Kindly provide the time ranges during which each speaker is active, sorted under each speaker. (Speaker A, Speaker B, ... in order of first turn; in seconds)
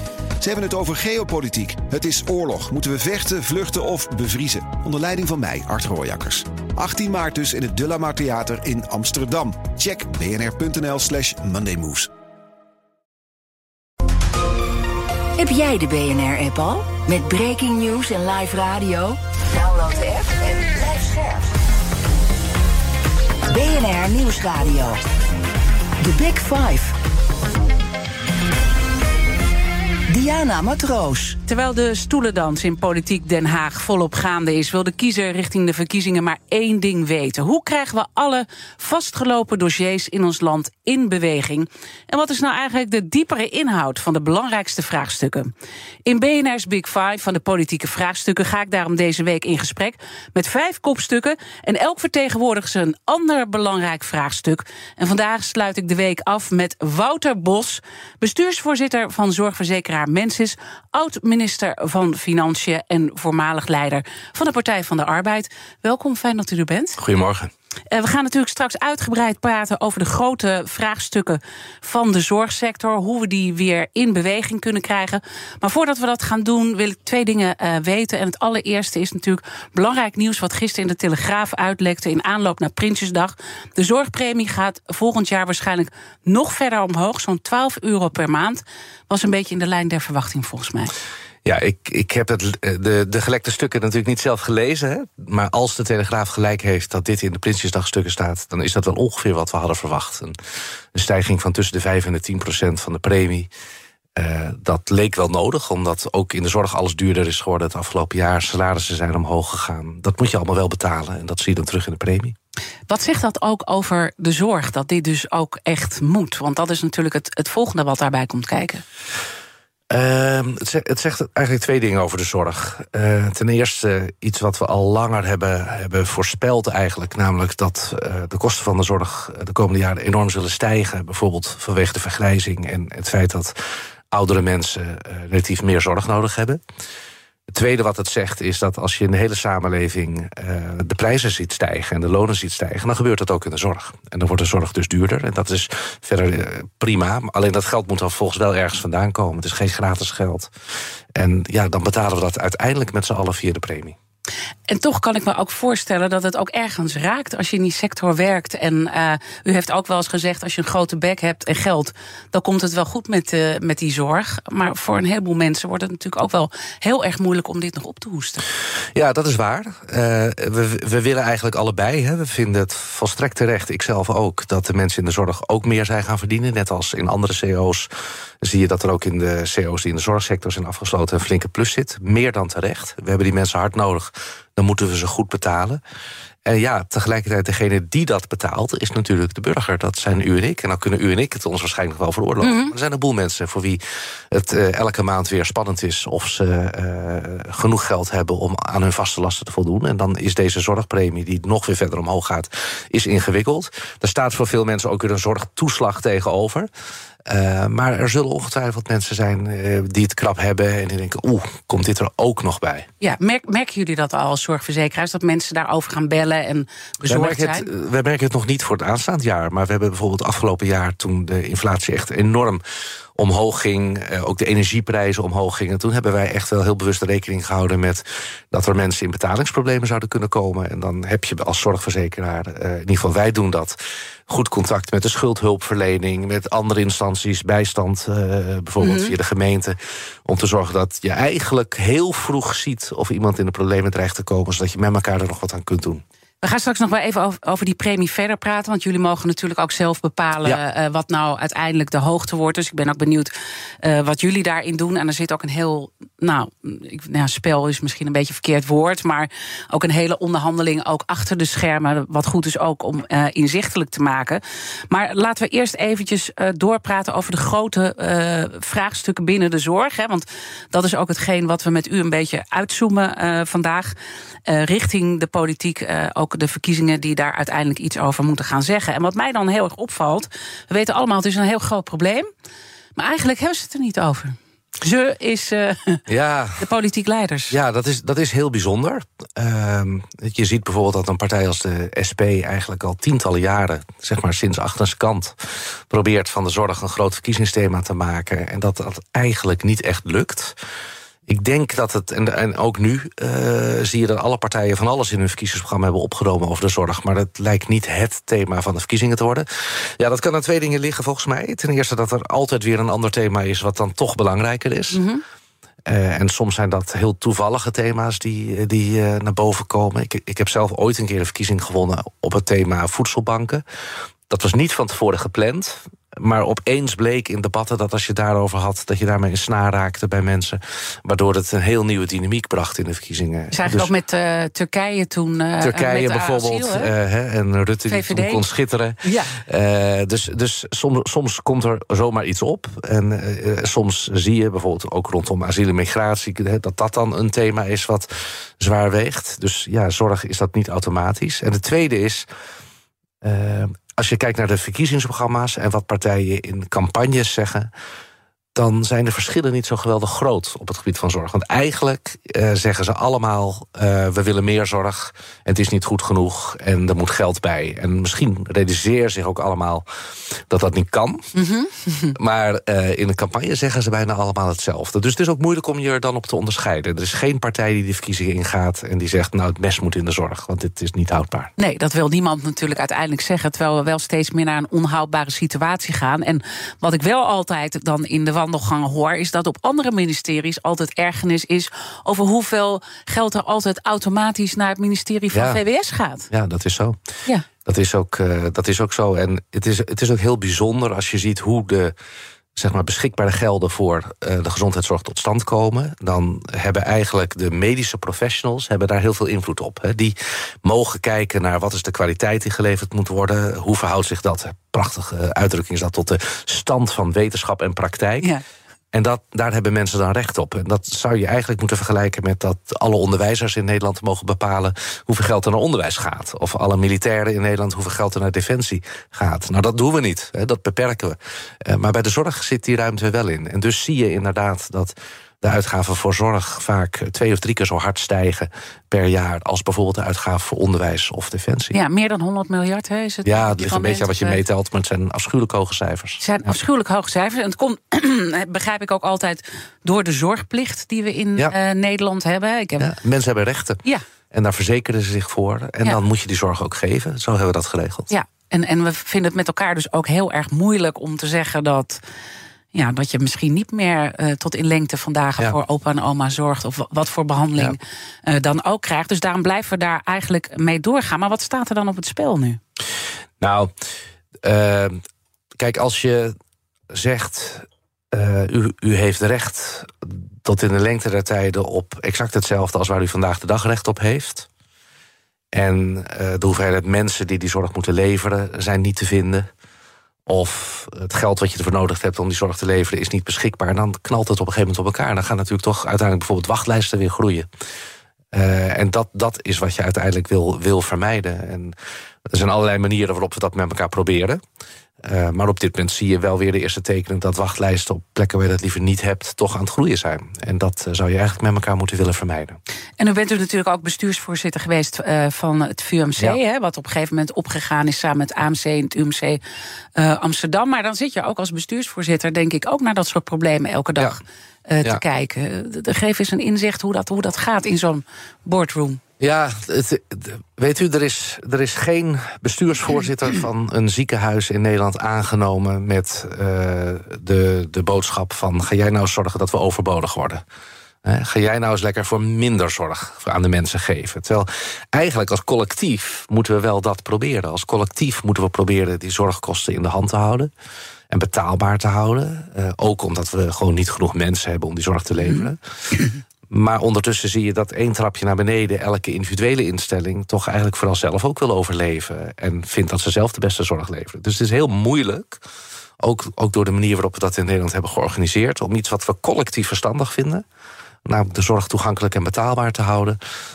Speaker A: 0.4-12.1
Speaker B: 15.4-21.5, 23.5-25.0, 26.0-26.9, 30.1-31.4
Speaker C: 31.5-45.5, 46.0-67.0, 67.9-90.9, 112.9-118.8, 154.7-168.4, 192.4-192.8, 213.0-217.7, 238.8-239.2, 246.4-253.3, 253.8-273.9, 274.5-282.3, 282.9-286.0, 286.6-287.6, 314.9-315.2, 333.5-336.9, 337.9-338.4, 339.0-339.4, 371.3-372.1, 381.6-396.3, 441.7-444.4, 446.2-452.9, 458.1-462.0, 462.7-472.6, 513.0-519.4, 520.0-529.0
Speaker D: 67.0-67.5, 91.5-100.3, 100.9-103.5, 104.2-112.4, 119.9-133.6, 134.1-136.6, 137.5-150.5, 151.2-154.0, 168.9-177.9, 178.4-185.8, 186.5-206.7, 207.2-212.9, 217.1-222.6, 223.2-246.0, 286.1-286.6, 287.5-300.6, 301.3-315.0, 315.9-323.6, 324.3-333.9, 335.6-352.3, 353.2-357.7, 358.5-369.9, 370.5-371.3, 372.1-381.5, 395.3-395.6, 396.3-397.0, 397.6-401.9, 402.6-418.3, 418.9-441.8, 443.2-446.2, 452.8-458.1, 473.4-473.7, 474.4-475.0, 475.6-476.3, 476.9-484.5, 485.5-489.5, 490.3-497.5, 498.3-501.8, 502.3-504.4, 505.0-512.6, 529.2-540.4, 541.0-550.5, 551.1-555.6, 556.5-565.4, 566.0-570.4, 571.0-573.2